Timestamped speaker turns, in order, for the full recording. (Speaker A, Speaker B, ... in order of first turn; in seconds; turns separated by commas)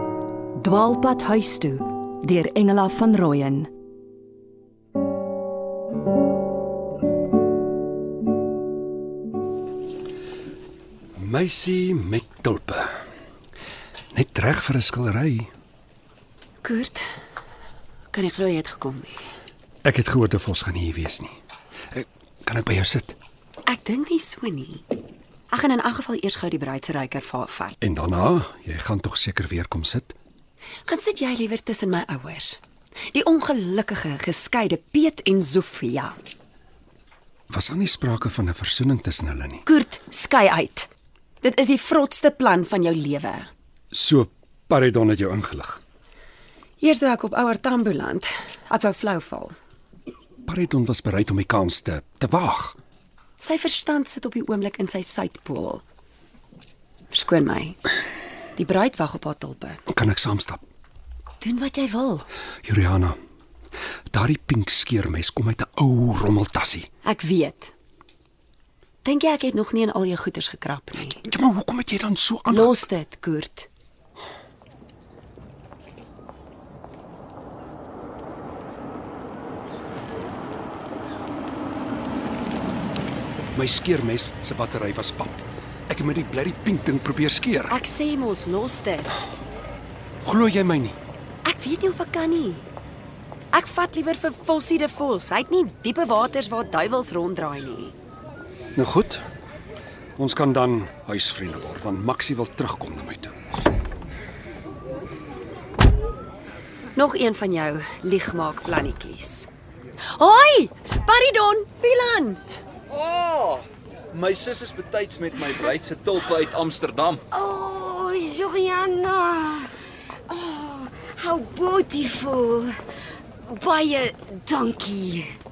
Speaker A: 0.6-3.7, Speaker B: 11.2-12.9, Speaker B: 14.1-15.5, Speaker C: 16.6-17.0, Speaker C: 18.1-19.2, Speaker B: 19.8-21.4, Speaker B: 21.9-23.2, Speaker C: 23.7-24.8, Speaker C: 25.5-27.8, Speaker B: 27.8-30.1, Speaker C: 30.9-32.6, Speaker C: 33.1-36.1, Speaker B: 37.5-39.6, Speaker C: 39.6-40.9, Speaker C: 41.4-43.5, Speaker B: 43.9-45.8, Speaker C: 46.8-49.5, Speaker B: 50.5-52.8, Speaker C: 53.4-55.8, Speaker C: 57.1-57.8, Speaker C: 58.6-59.8, Speaker B: 59.9-60.6, Speaker C: 61.4-62.2, Speaker B: 62.6-63.2, Speaker B: 64.1-66.8, Speaker C: 67.0-67.7, Speaker C: 69.0-71.2, Speaker B: 71.2-72.8, Speaker C: 72.5-73.7, Speaker B: 83.5-87.8, Speaker C: 87.7-89.2, Speaker B: 90.2-91.0, Speaker C: 91.4-92.6, Speaker C: 93.5-97.9, Speaker B: 98.8-99.2, Speaker B: 100.2-103.3, Speaker C: 106.9-109.5, Speaker C: 110.1-112.4, Speaker D: 112.9-113.6, Speaker D: 114.1-117.2, Speaker E: 117.3-119.7, Speaker E: 120.3-122.7, Speaker E: 123.5-125.3